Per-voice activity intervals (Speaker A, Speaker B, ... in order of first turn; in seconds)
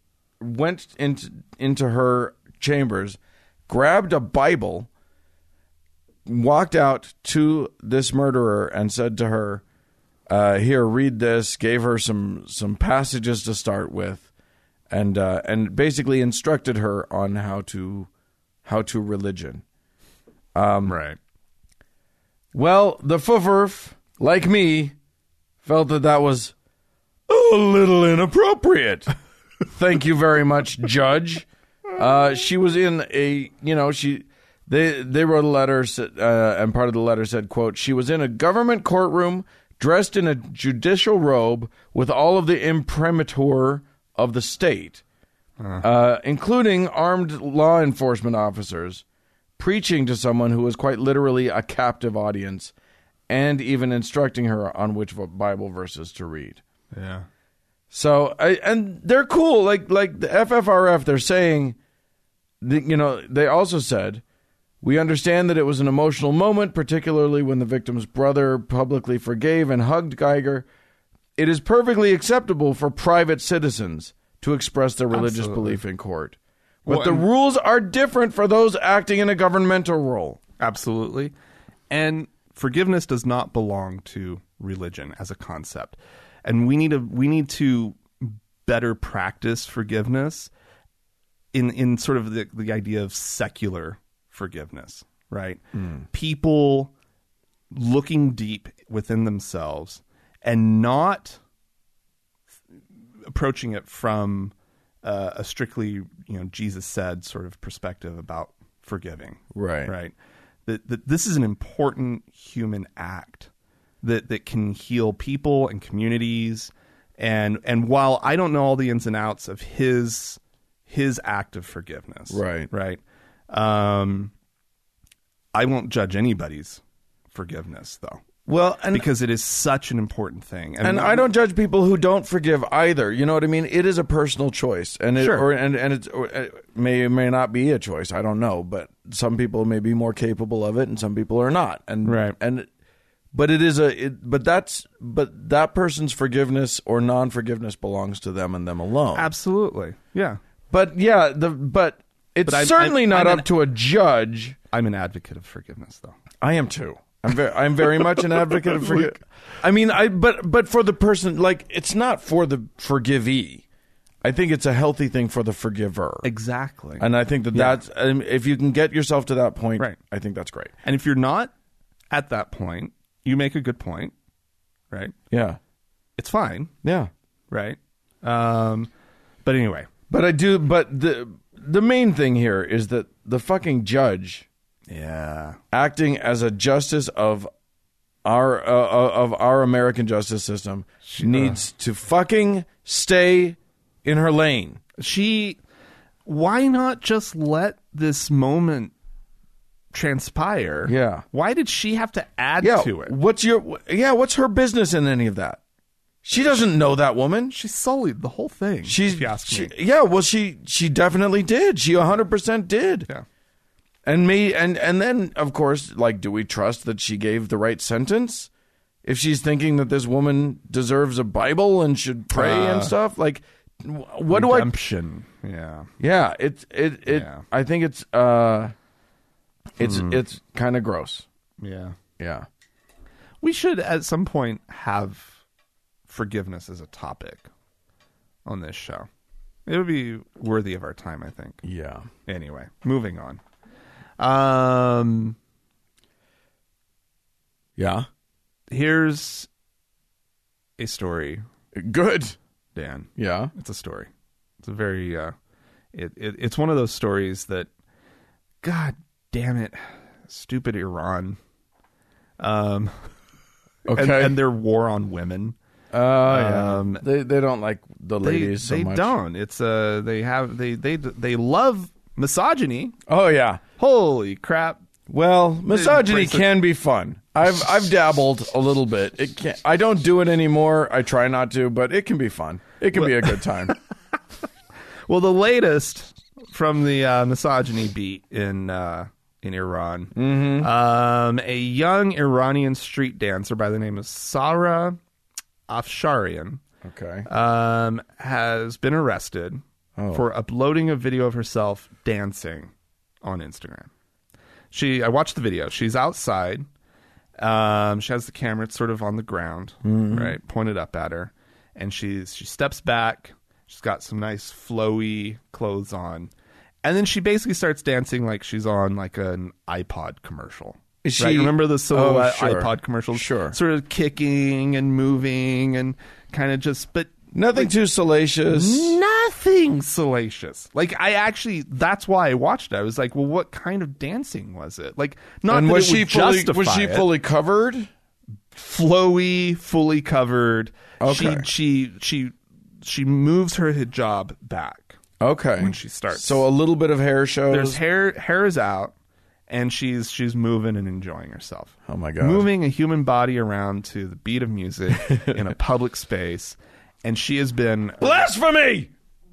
Speaker A: 0.4-3.2, 3.7-4.9, 6.2-9.6, 10.3-14.3, 14.9-18.1, 18.6-19.6, 20.5-20.9, 22.5-24.9, 25.6-26.5, 27.3-29.1, 29.6-45.0, 45.8-49.0, 49.6-52.7, 53.3-56.6, 57.9-61.8, 62.6-64.2, 64.8-70.7, 71.4-80.4, 109.5-109.9, 122.3-122.7, 128.5-129.1, 130.8-142.7, 143.3-149.3, 150.7-154.6, 156.4-163.6, 164.2-166.2, 167.0-170.7, 175.3-175.6, 176.8-177.1, 180.1-184.4, 185.7-187.5, 188.2-194.8, 200.8-201.2, 202.6-205.6, 206.2-207.5, 208.8-213.1, 214.1-218.5, 219.0-224.7, 226.0-228.7, 229.8-231.2, 232.2-232.5, 241.6-242.1, 247.8-248.1, 251.7-252.3, 253.2-253.5, 263.9-264.4, 265.9-269.1, 273.1-273.6, 275.1-283.8, 290.1-290.7, 296.8-297.3, 300.0-300.2, 309.8-310.4, 321.0-323.6, 327.3-328.9, 335.5-337.9, 341.0-341.5, 345.2-347.8, 351.9-352.5, 355.0-355.4, 358.0-358.9
Speaker B: 20.8-21.2, 45.6-45.9, 56.9-57.3, 75.1-75.8, 76.8-77.2, 80.6-81.3, 81.9-90.5, 91.5-96.9, 97.7-101.4, 103.2-110.1, 110.7-113.5, 114.0-124.3, 125.5-128.2, 128.9-131.3, 135.2-135.5, 142.0-142.4, 149.1-150.4, 152.4-153.5, 154.7-156.2, 158.6-159.1, 166.2-167.8, 170.8-171.5, 172.1-174.1, 176.2-176.7, 177.5-178.9, 179.4-179.9, 184.9-185.6, 191.1-191.6, 195.0-195.6, 196.2-198.9, 199.9-203.1, 207.5-209.7, 222.3-222.9, 224.3-225.9, 227.1-227.4, 229.8-230.2, 231.6-231.9, 233.4-235.4, 236.1-237.5, 238.4-239.1, 239.7-241.6, 242.2-243.4, 244.2-245.4, 248.7-249.5, 250.8-251.4, 252.7-254.1, 254.6-255.3, 255.9-257.7, 258.6-261.4, 262.4-263.1, 263.9-265.6, 266.2-267.0, 268.2-272.9, 273.8-274.8, 275.7-276.5, 282.9-283.7, 285.1-295.0, 295.7-296.6, 297.3-302.7, 303.2-303.9, 304.7-306.6, 307.4-316.3, 316.8-327.7, 328.5-337.1, 338.5-345.0, 345.6-346.4, 347.5-348.9, 349.5-358.3